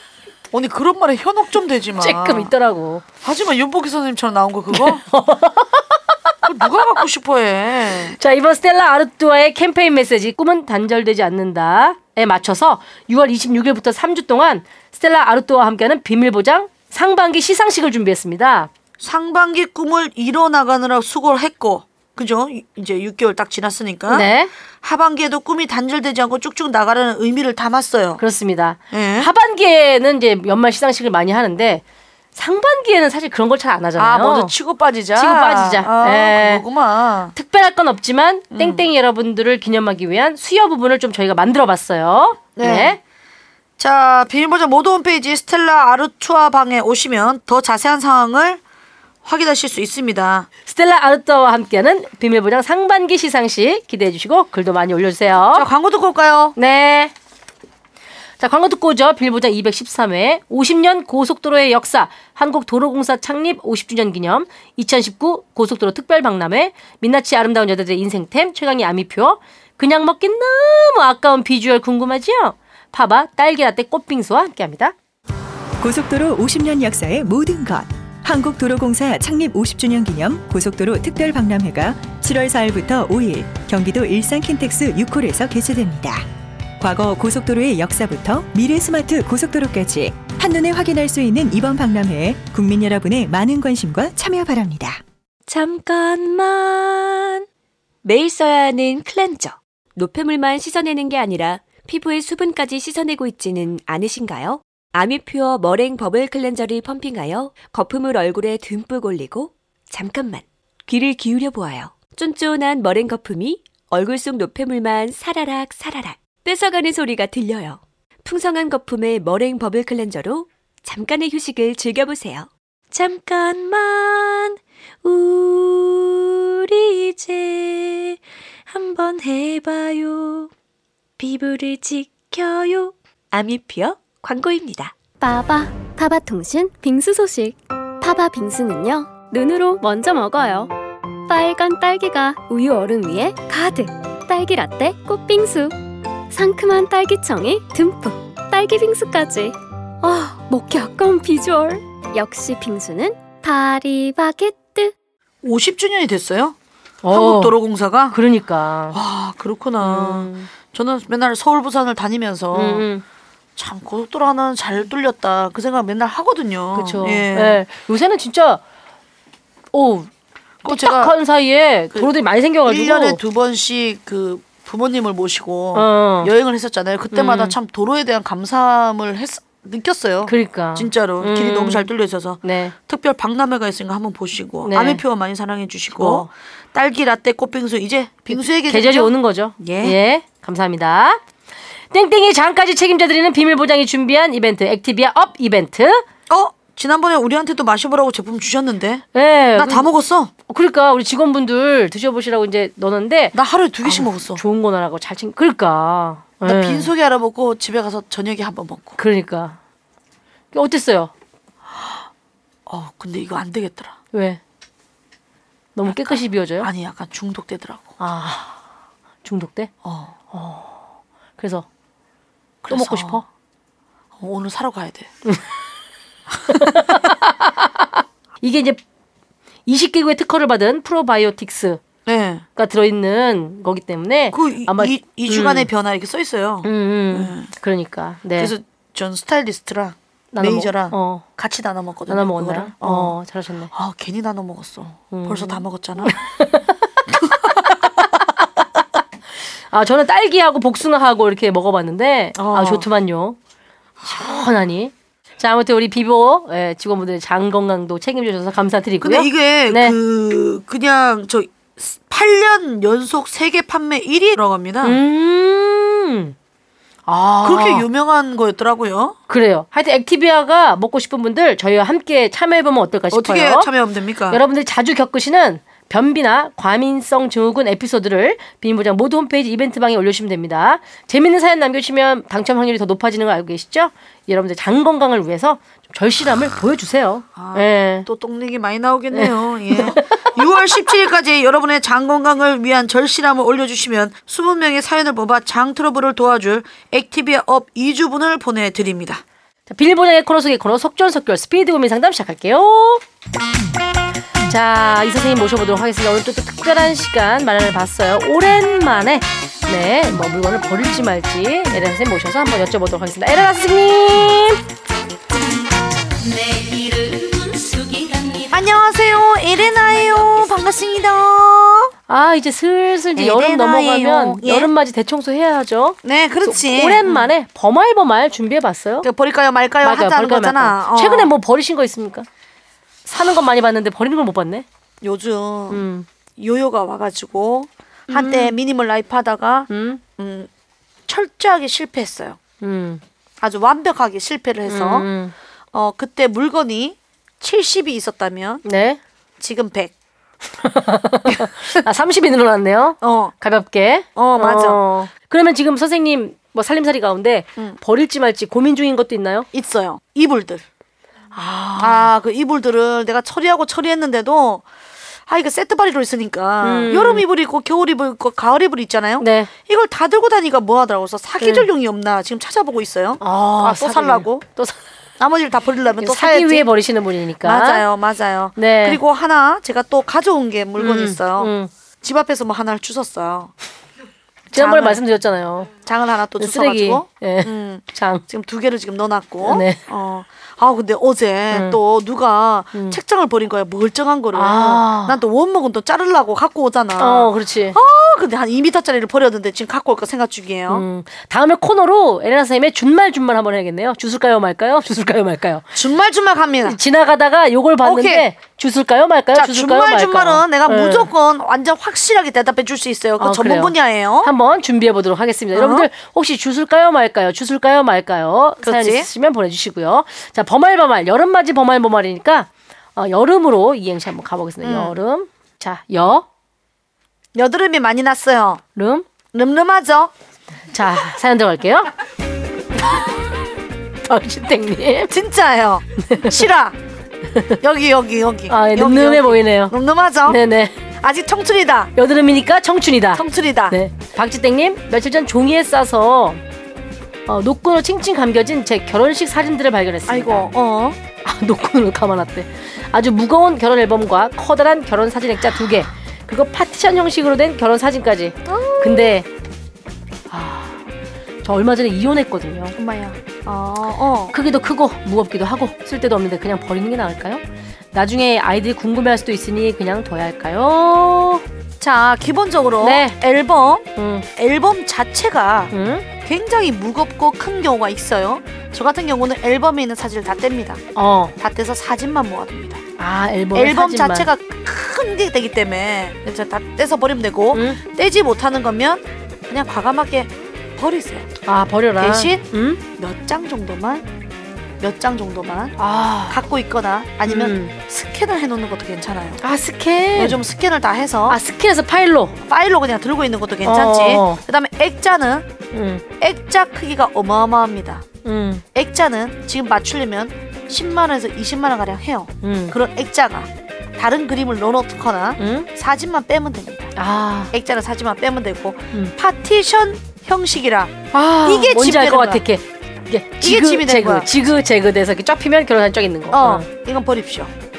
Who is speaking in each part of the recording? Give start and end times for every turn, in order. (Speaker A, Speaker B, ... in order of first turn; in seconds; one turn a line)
Speaker A: 0.5-2.5
Speaker B: 2.0-3.0
Speaker A: 3.2-5.0
Speaker B: 4.7-6.0
Speaker A: 6.5-8.2
Speaker B: 8.2-18.7
Speaker A: 19.0-24.3
Speaker B: 24.1-24.5
Speaker A: 24.8-28.2
Speaker B: 28.2-31.8
Speaker A: 28.9-29.3
Speaker B: 32.3-34.5
Speaker A: 34.0-37.3
Speaker B: 35.2-36.6
Speaker B: 37.4-43.0
Speaker A: 38.5-38.9
Speaker A: 42.6-43.0
Speaker A: 43.8-48.6
Speaker A: 49.2-50.5
Speaker B: 50.6-55.7
Speaker A: 55.5-56.5
Speaker B: 56.6-57.1
Speaker B: 58.4-74.9
Speaker C: 75.8-86.3
Speaker C: 86.8-95.0
Speaker D: 95.5-97.5
Speaker D: 98.0-128.2
Speaker D: 128.7-130.5
Speaker D: 131.2-134.9
Speaker E: 135.2-140.7
Speaker E: 141.3-145.7
Speaker E: 146.3-154.9
Speaker A: 155.4-156.6
Speaker B: 157.0-157.6
Speaker A: 157.1-158.2
Speaker B: 158.1-158.9
Speaker A: 158.9-162.8
Speaker B: 159.8-160.5
Speaker B: 162.5-163.0
Speaker A: 163.6-167.6
Speaker B: 166.7-168.6
Speaker B: 169.7-170.1
Speaker A: 170.6-171.1
Speaker B: 170.7-173.2
Speaker A: 172.7-190.0
Speaker B: 175.7-176.3
Speaker B: 177.1-177.6
Speaker B: 180.2-181.9
Speaker B: 182.4-182.7
Speaker B: 184.6-185.0
Speaker B: 185.9-186.3
Speaker B: 188.3-191.2
Speaker B: 191.9-196.0
Speaker A: 196.3-200.3
Speaker B: 199.1-199.9
Speaker B: 200.5-206.9
Speaker A: 203.3-204.4
Speaker A: 206.4-209.0
Speaker B: 209.0-209.6
Speaker B: 210.5-211.1
Speaker A: 211.7-212.0
Speaker A: 212.7-214.0
Speaker B: 214.1-214.4
Speaker B: 215.7-216.7
Speaker A: 216.1-217.9
Speaker B: 218.0-218.5
Speaker B: 219.2-219.7
Speaker A: 219.8-220.1
Speaker B: 220.3-220.8
Speaker B: 221.4-221.7
Speaker A: 222.6-223.2
Speaker B: 222.7-223.2
Speaker A: 224.2-225.1
Speaker B: 226.5-227.9
Speaker B: 228.4-228.8
Speaker B: 229.7-231.8
Speaker A: 232.1-232.4
Speaker B: 232.6-235.7
Speaker A: 234.3-237.5
Speaker B: 236.6-238.5
Speaker A: 238.4-243.1
Speaker B: 240.3-241.2
Speaker B: 242.1-243.7
Speaker A: 243.7-246.2
Speaker B: 245.1-246.8
Speaker A: 247.1-247.7
Speaker B: 247.6-248.4
Speaker B: 249.7-253.4
Speaker A: 252.4-252.9
Speaker B: 254.0-259.9
Speaker A: 259.0-265.0
Speaker B: 264.8-266.3
Speaker B: 267.1-267.9
Speaker A: 267.4-269.2
Speaker B: 269.3-273.7
Speaker A: 273.1-274.4
Speaker B: 274.3-288.1
Speaker A: 287.4-299.2
Speaker B: 289.1-290.3
Speaker B: 299.7-303.0
Speaker B: 304.5-314.6
Speaker A: 318.5-321.9
Speaker B: 322.1-329.1
Speaker A: 323.1-324.7
Speaker A: 326.0-327.3
Speaker A: 329.0-331.3
Speaker B: 329.8-332.3
Speaker B: 333.1-334.6
Speaker A: 335.0-335.8
Speaker B: 335.7-336.1
Speaker A: 336.4-340.5
Speaker B: 338.1-338.6
Speaker B: 339.7-340.0
Speaker A: 341.1-342.4
Speaker B: 342.6-343.0
Speaker A: 343.4-345.1
Speaker B: 344.7-345.3
Speaker A: 345.7-348.6
Speaker B: 348.6-349.0
Speaker A: 349.4-349.9
Speaker B: 350.6-359.5
Speaker A: 351.3-351.8
Speaker A: 353.0-353.3
Speaker A: 354.1-354.8
Speaker A: 359.5-360.6
Speaker B: 361.3-362.1
Speaker A: 361.8-364.6
Speaker A: 365.3-374.4
Speaker B: 366.6-367.2
Speaker B: 369.2-369.5
Speaker B: 371.4-371.7
Speaker B: 373.2-374.8
Speaker A: 375.2-376.7
Speaker B: 376.0-377.8
Speaker A: 377.4-383.5
Speaker B: 378.6-379.0
Speaker B: 380.8-381.7
Speaker A: 384.5-385.0
Speaker B: 384.5-385.7
Speaker A: 385.8-400.8
Speaker B: 386.4-388.2
Speaker B: 389.4-389.8
Speaker B: 391.5-391.8
Speaker B: 394.3-395.2
Speaker B: 397.0-397.8
Speaker B: 400.7-405.6
Speaker A: 405.7-406.8
Speaker B: 406.6-411.1
Speaker A: 407.8-408.3
Speaker A: 409.3-414.3
Speaker B: 413.2-426.2
Speaker A: 415.5-415.9
Speaker A: 418.6-419.1
Speaker A: 424.6-424.9
Speaker A: 427.3-428.6
Speaker B: 428.8-429.1
Speaker A: 429.3-430.1
Speaker B: 430.7-431.9
Speaker B: 434.0-435.1
Speaker A: 435.1-436.8
Speaker B: 436.0-436.4
Speaker A: 437.6-440.4
Speaker B: 438.5-439.7
Speaker B: 440.2-440.7
Speaker A: 441.0-441.9
Speaker B: 441.9-446.4
Speaker A: 443.1-443.8
Speaker B: 447.3-450.5
Speaker A: 450.1-451.0
Speaker B: 451.2-459.3
Speaker A: 458.5-459.1
Speaker B: 460.3-460.8
Speaker B: 461.4-462.7
Speaker A: 462.8-464.3
Speaker B: 464.3-467.4
Speaker B: 467.9-471.4
Speaker A: 471.8-475.7
Speaker B: 472.8-473.1
Speaker B: 474.0-474.2
Speaker B: 475.7-476.1
Speaker A: 476.2-480.8
Speaker B: 480.9-481.3
Speaker A: 481.4-482.8
Speaker B: 483.0-484.3
Speaker A: 483.5-491.3
Speaker B: 487.5-487.8
Speaker B: 491.4-492.8
Speaker A: 492.0-492.4
Speaker A: 493.0-494.1
Speaker A: 494.8-495.8
Speaker B: 495.8-496.4
Speaker A: 496.3-499.4
Speaker B: 497.2-497.7
Speaker B: 499.4-500.4
Speaker A: 500.1-501.4
Speaker B: 501.3-502.4
Speaker A: 502.4-505.5
Speaker B: 503.6-504.4
Speaker B: 505.7-506.0
Speaker A: 506.2-508.1
Speaker B: 508.2-508.6
Speaker A: 508.7-516.9
Speaker B: 512.4-512.8
Speaker B: 515.4-515.7
Speaker B: 517.0-517.5
Speaker A: 517.5-522.4
Speaker B: 521.1-526.6
Speaker A: 523.4-524.3
Speaker A: 526.3-527.5